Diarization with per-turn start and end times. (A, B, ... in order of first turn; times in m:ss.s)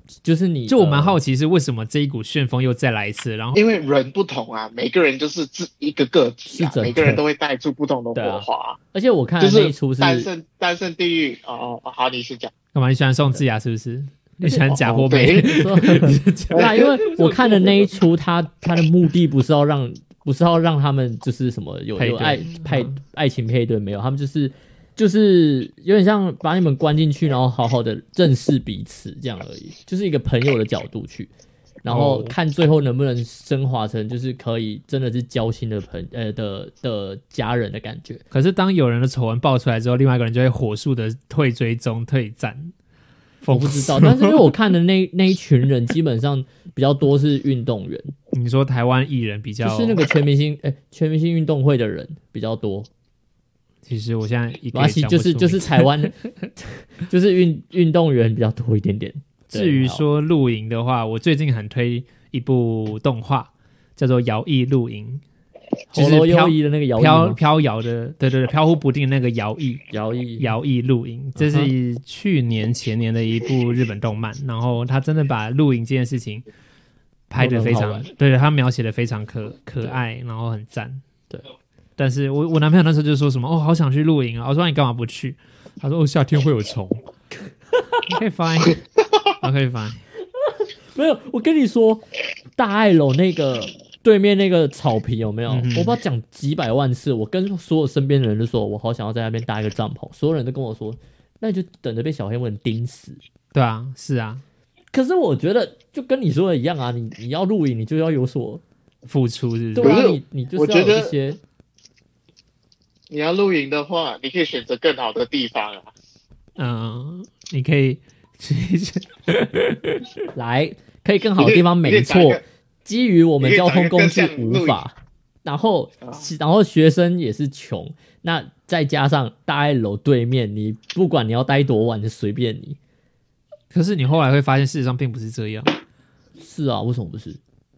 0:00.2-0:01.2 A
0:00.7-0:03.6 B
0:03.5-0:08.8 C
0:06.5-0:07.2 A
0:08.1-0:10.3 A
0:09.4-0:12.5 C
0:12.7-0:17.8 B
0:14.4-0:16.0 C
0:14.9-0:31.3 A
0:16.5-0:16.9 C
0:22.0-0:23.0 B
0:31.8-0:38.2 A
0:31.9-0:32.3 B
0:38.3-0:42.7 B
0:43.4-0:44.5 B
0:43.5-0:48.1 A
0:48.3-0:50.0 B
0:49.6-0:52.9 A
0:53.8-0:55.9 B
0:54.7-1:00.0 A
0:59.5-1:05.2 B
1:05.9-1:07.4 A
1:05.9-1:09.8 B
1:09.9-1:10.5 A
1:10.4-1:16.4 B
1:11.4-1:11.7 A
1:17.3-1:21.0 B
1:17.4-1:18.1 A
1:22.0-1:27.1 B
1:28.1-1:28.8 B
1:29.4-1:30.0 B
1:30.9-1:32.0 A
1:32.6-1:43.2 A
1:35.5-1:36.0 B
1:43.5-1:44.4 B
1:44.9-1:48.6 A
1:49.1-1:50.0 B
1:49.7-1:51.4 A
1:49.8-1:51.1 C
1:53.1-1:55.9 C
1:56.6-2:00.1 B
2:00.3-2:12.8 A
2:01.4-2:02.4 C
2:03.4-2:04.8 C
2:13.7-2:15.7 B
2:16.4-2:17.4 A